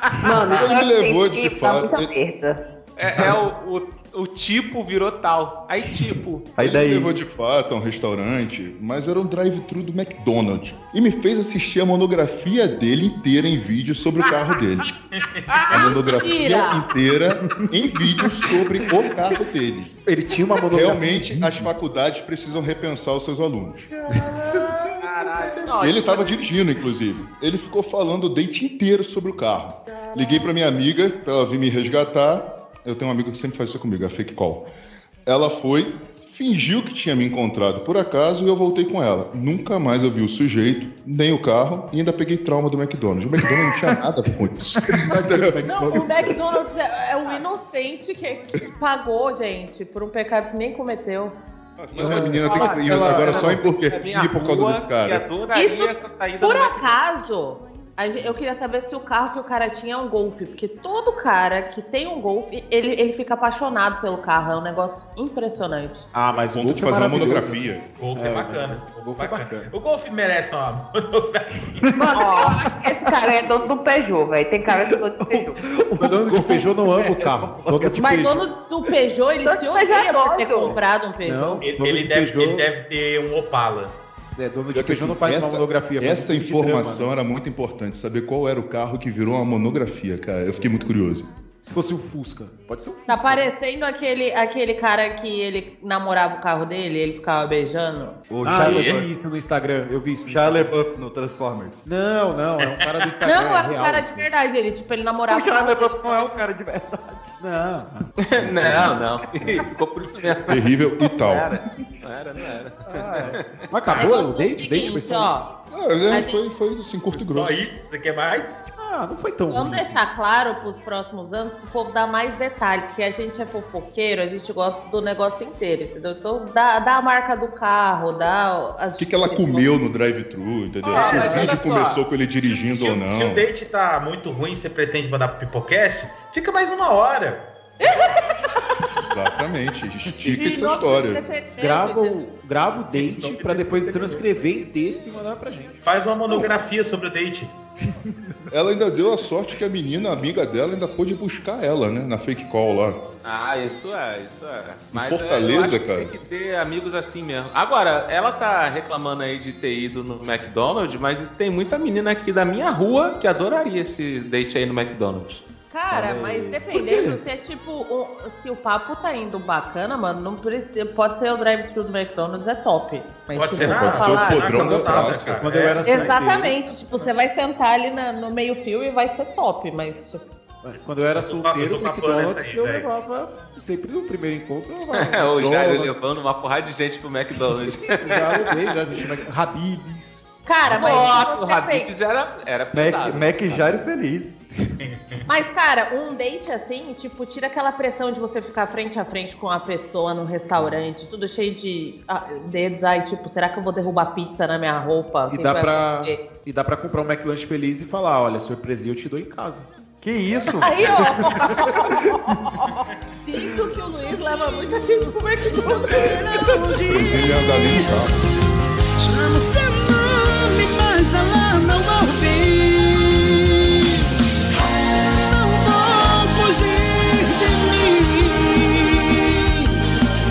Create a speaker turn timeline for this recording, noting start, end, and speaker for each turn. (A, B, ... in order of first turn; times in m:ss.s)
0:00.2-0:02.6 A
0:00.3-0:02.1 B
0:03.0-0:06.6 C
0:03.1-0:03.4 B
0:06.6-0:07.1 D
0:06.6-0:14.9 B
0:15.1-0:15.6 E
0:15.5-0:15.9 C
0:15.7-0:19.9 B
0:15.7-0:16.8 F
0:20.0-0:21.7 G
0:20.7-0:23.9 B
0:25.0-0:26.5 C
0:25.4-0:34.6 B
0:35.2-0:45.6 B
0:44.9-0:46.4 G
0:45.6-0:51.3 F
0:51.9-0:55.2 B
0:51.9-0:57.0 C
0:52.0-0:53.5 G
0:55.5-1:06.1 F
1:06.1-1:09.7 G
1:06.5-1:07.8 B
1:08.0-1:11.8 E
1:12.0-1:15.5 A
1:12.0-1:12.5 D
1:15.2-1:18.1 D
1:16.0-1:18.5 G
1:18.0-1:21.6 F
1:19.4-1:20.8 A
1:21.2-1:22.6 G
1:21.6-1:24.0 E
1:24.4-1:27.1 G
1:24.7-1:31.3 B
1:31.6-1:33.5 G
1:33.1-1:38.2 F
1:38.3-1:39.1 D
1:38.4-1:40.7 G
1:40.3-1:41.8 D
1:41.8-1:44.3 G
1:43.2-1:46.3 F
1:45.3-1:47.3 D
1:47.4-1:48.1 G
1:48.2-1:53.9 C
1:48.6-1:49.0 D
1:48.6-1:49.0 G
1:50.5-1:51.6 B
1:52.9-1:53.4 D
1:53.7-1:55.5 G
1:53.9-1:55.4 F
1:55.7-1:57.6 B
1:56.1-1:56.4 F
1:57.1-1:58.6 E
1:58.8-2:00.0 G
1:59.5-2:09.7 F
2:09.0-2:13.4 B
2:10.9-2:12.0 C
2:10.9-2:11.5 E
2:12.3-2:17.4 E
2:17.8-2:18.3 F
2:19.0-2:21.2 B
2:20.3-2:22.2 F
2:21.6-2:25.8 G
2:22.9-2:24.3 E
2:25.8-2:27.5 E
2:28.5-2:33.0 B
2:33.2-2:45.4 C
2:34.9-2:36.1 B
2:45.7-2:54.9 F
2:45.9-2:46.6 D
2:46.7-2:47.1 G
2:53.3-2:56.1 E
2:53.6-2:55.4 B
2:54.6-2:56.6 G
2:55.8-3:00.2 F
3:00.6-3:05.9 G
3:01.2-3:02.9 E
3:04.9-3:08.5 C
3:08.0-3:10.2 G
3:10.4-3:11.9 F
3:10.6-3:13.7 C
3:12.7-3:14.3 D
3:14.8-3:15.2 E
3:15.3-3:26.2 F
3:25.3-3:29.7 G
3:30.0-3:32.6 D
3:30.6-3:32.7 F
3:33.2-3:36.1 F
3:36.0-3:37.1 G
3:36.1-3:37.2 H
3:36.9-3:38.2 B
3:39.0-3:43.9 H
3:45.0-3:49.7 H